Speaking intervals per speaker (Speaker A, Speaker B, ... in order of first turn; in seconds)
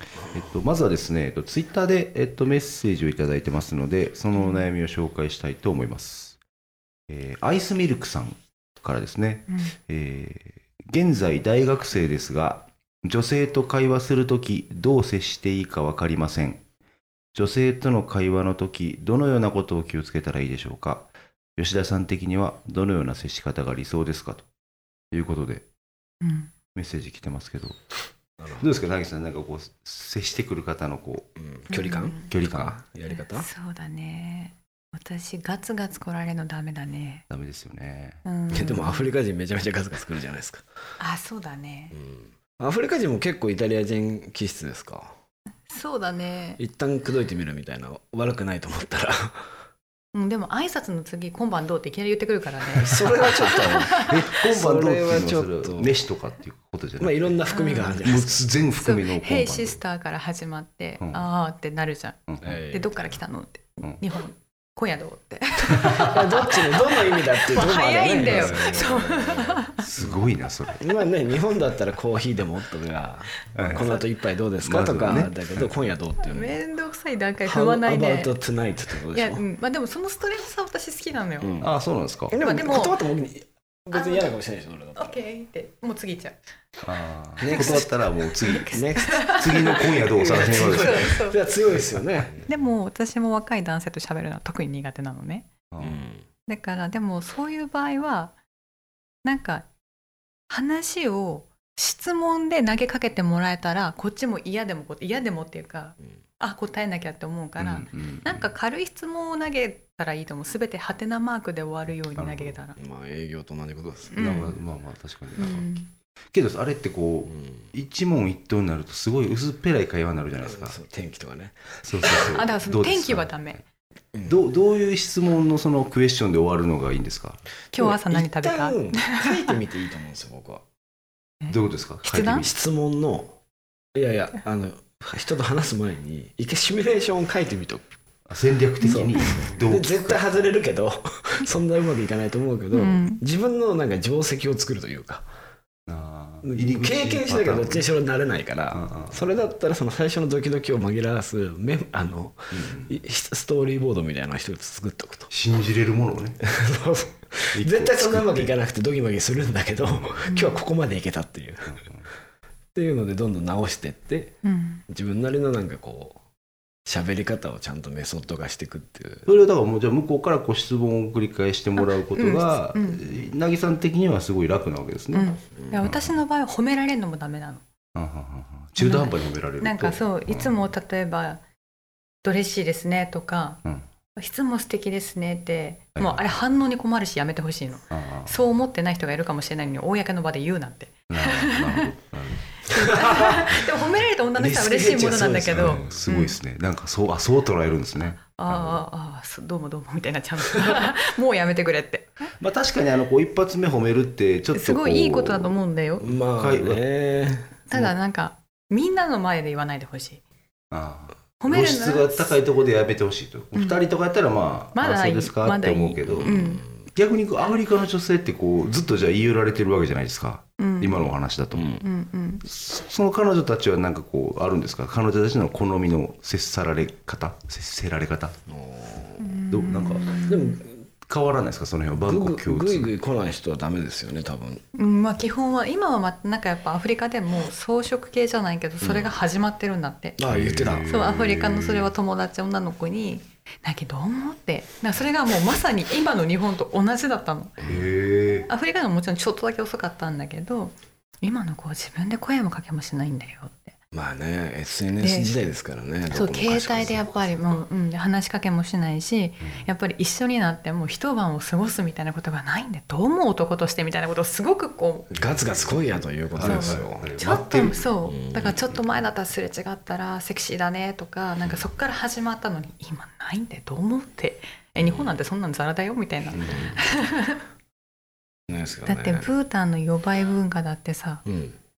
Speaker A: 0.3-6.4, 7.1-16.6, 17.3-24.5, 25.1-25.6, 26.7-27.8, 28.6-31.3, 32.3-32.8, 37.3-38.2, 54.0-57.4, 58.0-59.8, 61.0-61.2, 62.3-62.6, 65.7-66.0, 68.2-69.2, 69.8-70.9, 73.5-73.9, 74.6-75.8, 81.6-82.3, 86.8-91.2, 95.7-96.0, 107.6-108.5, 112.2-112.6, 114.1-115.7, 116.3-120.8, 121.8-123.6, 124.2-127.4, 131.5-132.5, 138.3-140.5, 145.9-147.9, 148.7-149.2, 152.5-152.9, 155.3-156.4, 157.5-158.5, 161.7-162.0, 169.2-176.1, 177.9-180.6, 185.9-186.3, 187.9-188.4, 191.1-193.0, 195.5-198.8, 202.4-205.6, 206.1-206.8, 210.7-221.7, 222.4-228.4, 229.5-230.2, 231.1-232.9, 240.3-241.9, 247.7-248.5, 259.4-259.7, 265.1-265.7, 266.3-267.9, 276.3-276.8
Speaker B: 4.3-4.7, 9.5-9.7, 26.2-26.5, 31.7-32.3, 33.1-37.2, 38.2-39.1, 41.0-42.0, 45.7-46.6, 50.1-54.3, 57.5-58.0, 58.7-69.8, 73.6-74.0, 76.2-78.3, 79.1-81.6, 82.4-83.0, 83.9-84.3, 85.0-86.4, 87.4-91.4, 92.4-95.5, 96.5-98.3, 99.2-99.7, 100.5-112.8, 114.1-114.6, 115.4-115.9, 122.0-123.6, 127.7-129.6, 131.4-132.5, 138.8-139.4, 142.7-143.2, 160.3-160.6, 164.4-164.8, 171.8-173.1, 175.1-177.6, 178.8-181.4, 182.2-183.6, 184.1-191.9, 192.6-196.4, 198.0-202.2, 204.5-206.1, 207.7-210.2, 211.4-212.4, 213.5-213.8, 214.7-216.6, 220.6-221.1, 221.8-222.4, 229.2-230.6, 234.7-240.2, 240.9-247.7, 248.3-253.8, 255.0-255.4, 256.1-265.1, 266.4-277.4, 278.9-281.2
Speaker C: 28.4-28.7, 31.4-33.5, 38.5-40.6, 41.9-45.1, 46.6-49.5, 52.8-56.0, 57.0-58.4, 62.4-63.0, 65.9-70.2, 70.8-76.6, 77.5-79.4, 81.4-81.7, 82.3-85.2, 87.4-87.9, 88.7-92.5, 95.8-96.3, 112.8-114.3, 117.2-117.7, 120.4-122.4, 124.1-124.4, 127.7-130.6, 132.3-133.4, 133.9-137.9, 138.9-145.2, 146.4-155.3, 156.4-161.8, 162.7-166.2, 166.8-169.3, 192.7-193.5, 194.3-195.9, 206.0-207.6, 216.0-216.8, 221.5-221.8, 228.5-229.4, 230.3-230.8, 232.0-234.6, 238.8-239.2, 240.2-241.0, 253.9-257.0, 265.1-267.1, 268.0-268.6, 274.8-275.1, 276.5-276.8, 278.5-279.3, 281.3-281.6